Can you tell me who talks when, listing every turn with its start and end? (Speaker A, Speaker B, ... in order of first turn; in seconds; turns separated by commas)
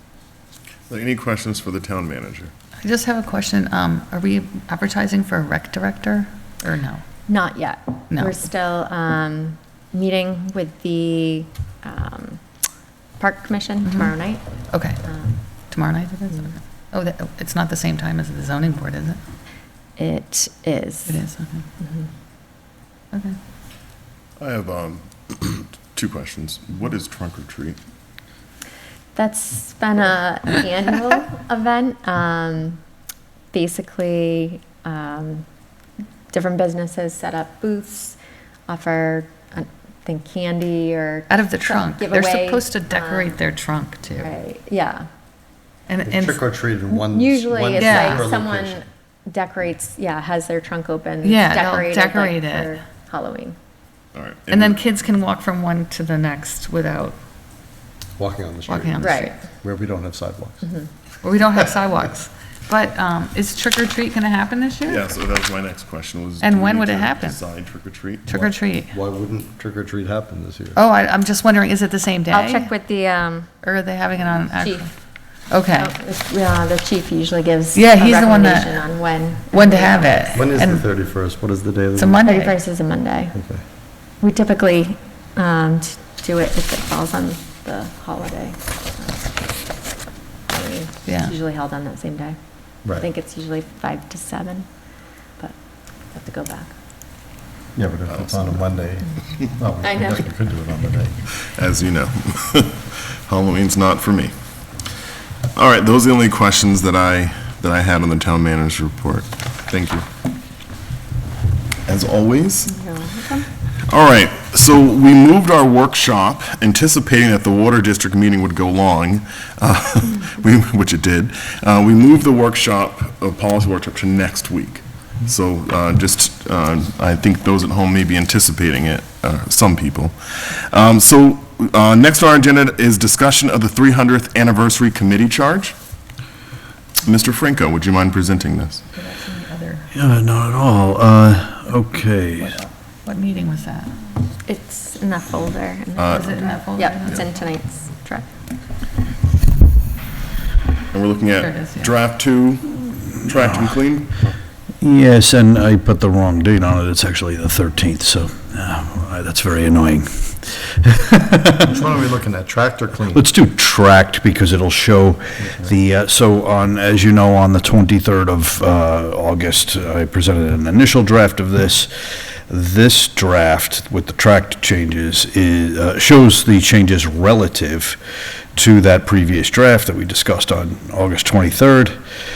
Speaker A: 0.9-2.5, Speaker B: 2.8-7.0, Speaker C: 7.3-12.4, Speaker C: 13.2-14.4, Speaker B: 14.7-15.0, Speaker C: 15.0-15.4, Speaker B: 15.7-19.2, Speaker C: 20.0-21.2, Speaker B: 21.1-21.6, Speaker C: 21.8-22.1, Speaker A: 24.4-27.8, Speaker C: 29.1-32.8, Speaker C: 33.5-35.4, Speaker C: 36.3-38.2, Speaker C: 38.7-43.4, Speaker B: 41.3-44.3, Speaker C: 44.2-45.1, Speaker B: 45.9-46.4, Speaker D: 46.0-48.8, Speaker C: 46.9-53.5, Speaker B: 47.8-48.3, Speaker B: 51.2-52.7, Speaker A: 54.1-54.8, Speaker B: 54.5-57.2, Speaker D: 58.2-60.6, Speaker B: 58.7-59.3, Speaker C: 59.0-59.3, Speaker B: 61.2-65.0, Speaker A: 64.8-68.3, Speaker B: 66.4-67.4, Speaker B: 68.3-68.9, Speaker D: 68.3-70.8, Speaker B: 70.8-72.7, Speaker C: 72.3-73.5, Speaker B: 73.6-74.9, Speaker C: 74.5-74.9, Speaker B: 75.5-75.9, Speaker C: 75.7-80.4, Speaker B: 77.7-78.8, Speaker B: 79.5-80.8, Speaker D: 80.3-82.2, Speaker B: 82.0-82.6, Speaker C: 82.2-83.3, Speaker D: 83.3-83.6, Speaker C: 84.2-89.4, Speaker C: 90.5-92.4, Speaker C: 92.9-94.7, Speaker C: 96.1-96.7, Speaker D: 97.8-101.2, Speaker A: 98.0-98.6, Speaker C: 99.8-100.2, Speaker A: 101.3-104.3, Speaker A: 105.5-110.0, Speaker A: 111.9-112.7, Speaker C: 112.7-113.5, Speaker A: 113.9-135.7, Speaker A: 137.0-138.8, Speaker B: 138.9-139.8, Speaker E: 139.9-142.6, Speaker B: 142.4-143.9, Speaker C: 144.4-148.2, Speaker A: 146.0-146.3, Speaker B: 146.1-147.2, Speaker A: 150.9-154.2, Speaker B: 151.3-151.9, Speaker E: 154.8-161.8, Speaker D: 161.7-163.2, Speaker E: 163.1-178.0, Speaker E: 178.5-181.9